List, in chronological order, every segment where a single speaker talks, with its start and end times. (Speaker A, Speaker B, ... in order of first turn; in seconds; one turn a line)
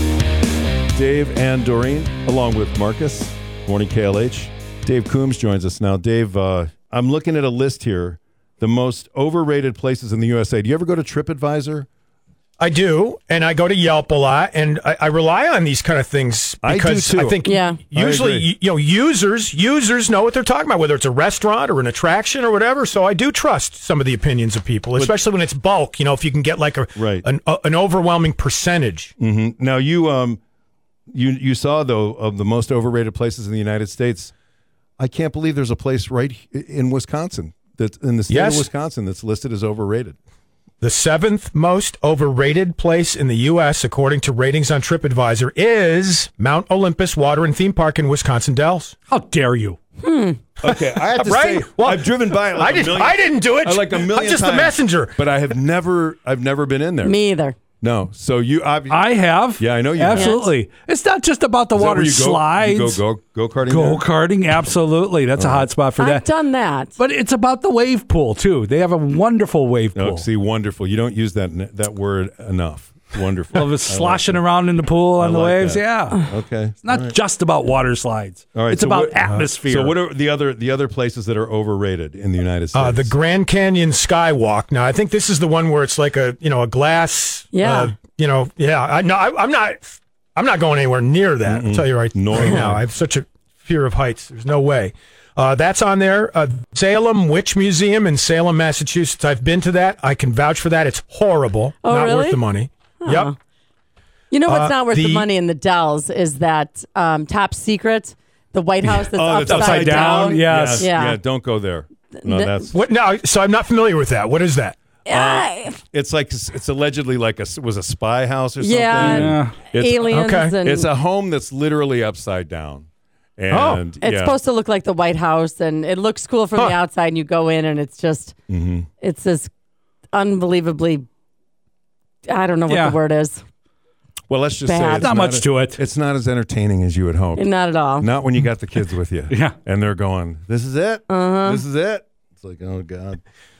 Speaker A: 0.9-11.9
Speaker B: 12.6-29.1
Speaker A: 16.6-17.4
Speaker C: 17.4-17.8
Speaker A: 17.9-18.5
Speaker A: 26.9-27.2
Speaker A: 29.2-30.4
Speaker A: 31.1-34.3
Speaker A: 35.0-40.1
Speaker B: 38.3-38.7
Speaker B: 40.8-48.9
Speaker D: 49.1-49.8
Speaker C: 50.0-50.4
Speaker B: 50.6-55.2
Speaker A: 50.6-57.2
Speaker C: 57.0-57.5
Speaker A: 57.8-60.4
Speaker D: 58.9-63.0
Speaker C: 60.1-60.5
Speaker A: 61.7-64.0
Speaker D: 63.6-66.2
Speaker A: 65.3-65.7
Speaker C: 66.0-67.0
Speaker D: 67.0-70.2
Speaker A: 69.9-74.4
Speaker D: 73.5-76.3
Speaker A: 75.2-77.2
Speaker D: 76.8-79.9
Speaker A: 78.5-83.1
Speaker B: 82.7-103.3
Speaker C: 87.5-87.9
Speaker A: 91.4-92.8
Speaker C: 101.8-102.4
Speaker C: 103.0-103.3
Speaker C: 104.3-111.2
Speaker B: 104.5-105.3
Speaker A: 108.8-112.8
Speaker D: 109.4-110.9
Speaker C: 112.2-112.7
Speaker B: 112.7-114.8
Speaker C: 115.0-115.8
Speaker A: 115.1-124.4
Speaker C: 118.6-120.9
Speaker D: 119.0-119.5
Speaker B: 120.1-120.5
Speaker B: 123.5-123.8
Speaker C: 124.0-128.3
Speaker A: 128.5-128.9
Speaker C: 129.0-129.5
Speaker C: 130.1-131.1
Speaker C: 132.2-133.4
Speaker D: 132.7-133.0
Speaker A: 134.3-143.2
Speaker C: 134.6-135.1
Speaker D: 135.0-135.8
Speaker C: 137.3-138.1
Speaker C: 141.1-141.6